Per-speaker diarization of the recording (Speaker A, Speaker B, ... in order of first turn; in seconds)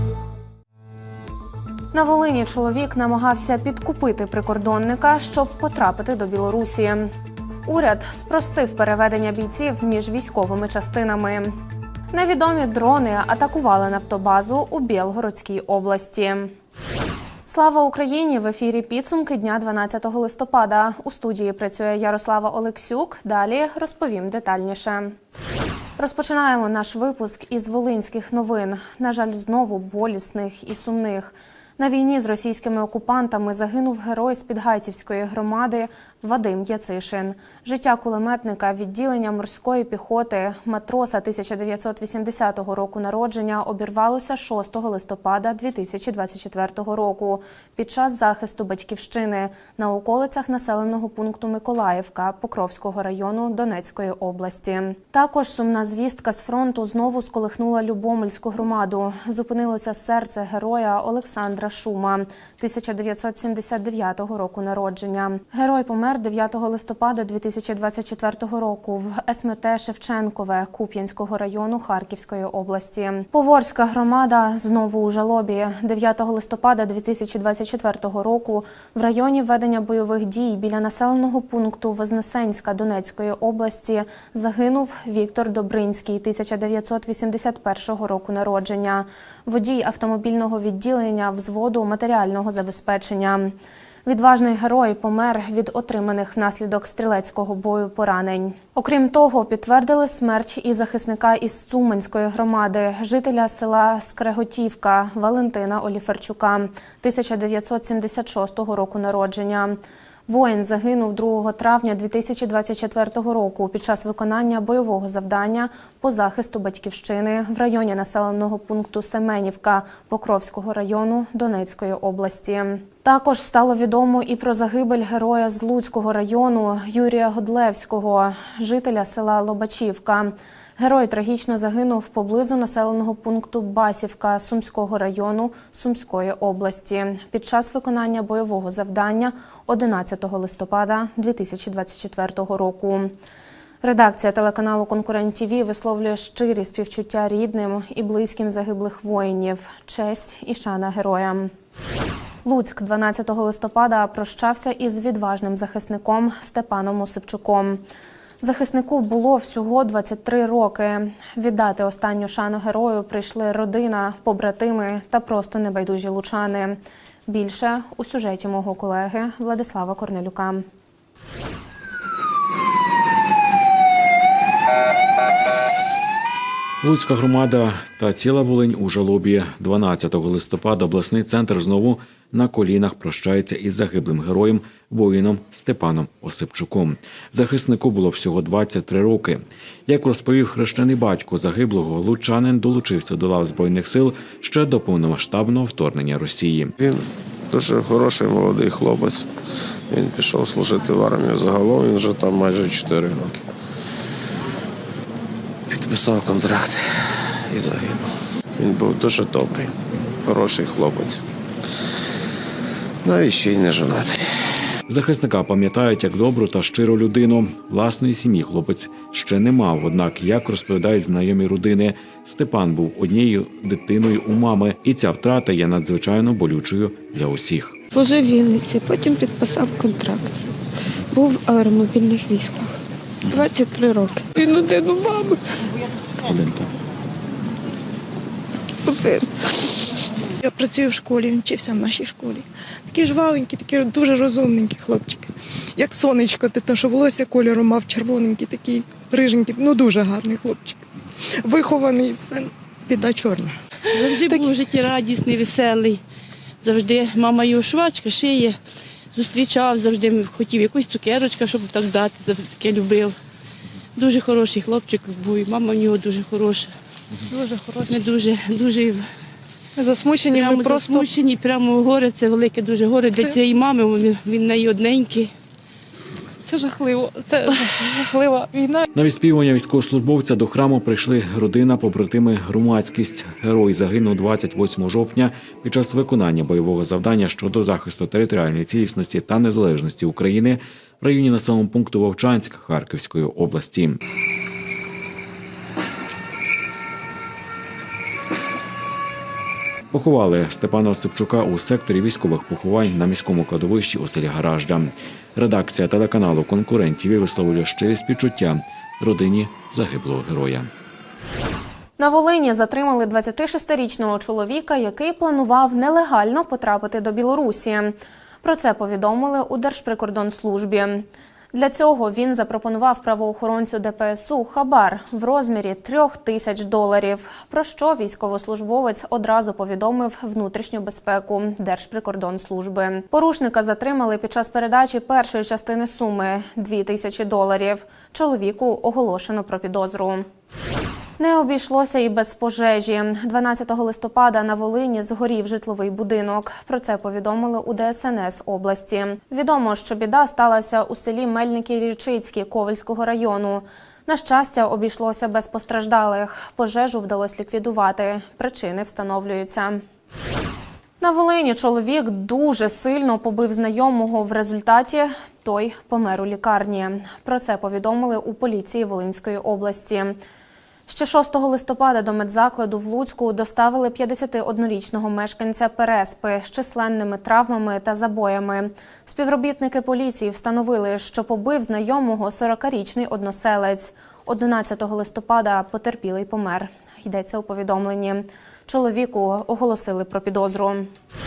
Speaker A: 1.9-7.1, 7.7-11.6, 12.1-16.5, 17.4-25.2, 26.0-93.5, 94.1-143.1, 143.8-151.5, 152.4-157.8, 158.4-170.6, 312.0-340.2, 341.2-359.8, 361.0-370.2, 370.9-390.9
Speaker B: 176.8-196.8, 214.9-227.8, 236.3-236.6, 278.9-294.0, 299.9-310.7
Speaker C: 196.8-199.3, 199.9-203.4, 205.7-208.1, 208.6-211.2, 213.0-214.2
Speaker D: 227.9-230.3, 231.1-232.8, 233.3-235.4, 238.8-239.9
Speaker E: 240.4-245.2, 245.8-250.7, 251.4-253.5
Speaker F: 253.9-256.0, 256.6-258.6, 259.1-263.1, 264.0-266.7, 267.9-269.1, 270.3-275.3
Speaker G: 253.9-254.5, 267.2-268.0, 269.8-271.1, 276.4-278.9